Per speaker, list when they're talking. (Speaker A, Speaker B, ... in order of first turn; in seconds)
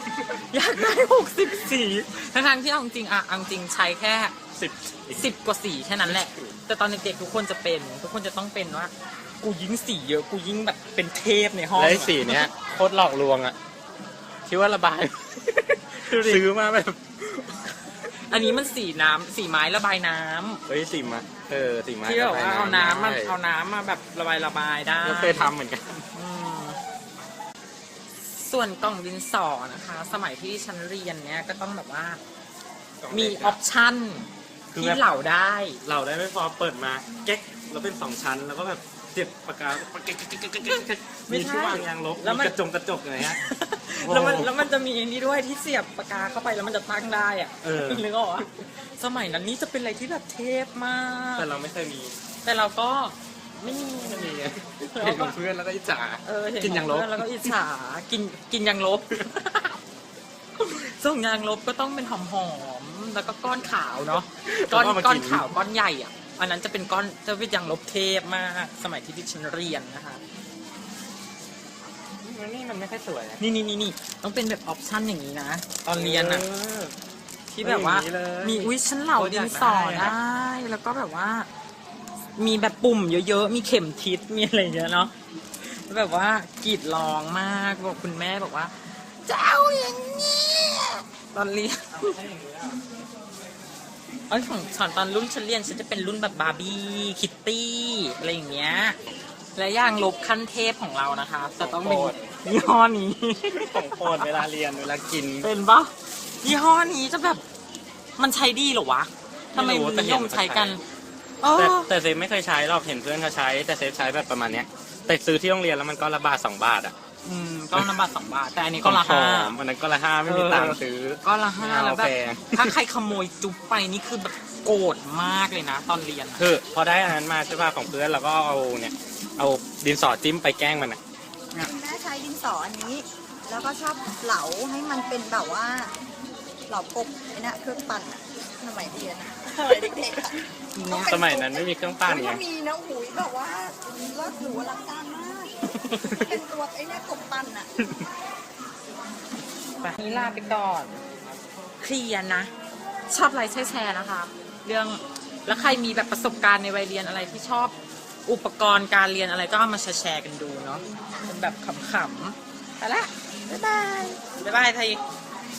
Speaker A: 0.3-4.3, 5.1-12.5, 16.1-16.4, 18.3-20.6, 22.0-25.5, 26.1-26.8, 28.3-32.2, 33.1-35.8, 40.7-42.5, 43.2-51.5, 52.4-54.3, 54.9-55.4, 56.2-59.8, 60.6-70.2, 73.4-76.5, 77.5-81.5, 82.4-92.1, 94.3-99.0, 99.5-104.3, 105.4-107.4, 108.2-110.8, 111.4-111.9, 117.2-119.5, 120.3-126.5, 140.8-141.1, 149.8-151.0, 151.8-152.5, 153.1-157.8, 158.3-165.0
Speaker B: 4.5-5.3, 6.1-6.5, 11.8-13.6, 14.5-17.0, 20.7-23.4, 25.0-26.1, 33.0-33.6, 34.7-35.0, 35.9-43.4, 44.0-44.6, 47.6-48.5, 51.4-52.2, 53.7-57.5, 64.5-65.5, 72.2-73.4, 76.0-77.0, 77.6-80.2, 91.9-92.8, 101.6-102.3, 103.5-105.5, 109.5-110.8, 111.5-117.0, 118.8-122.8, 126.4-131.0, 140.9-142.4
Speaker C: 131.6-135.9, 136.7-147.7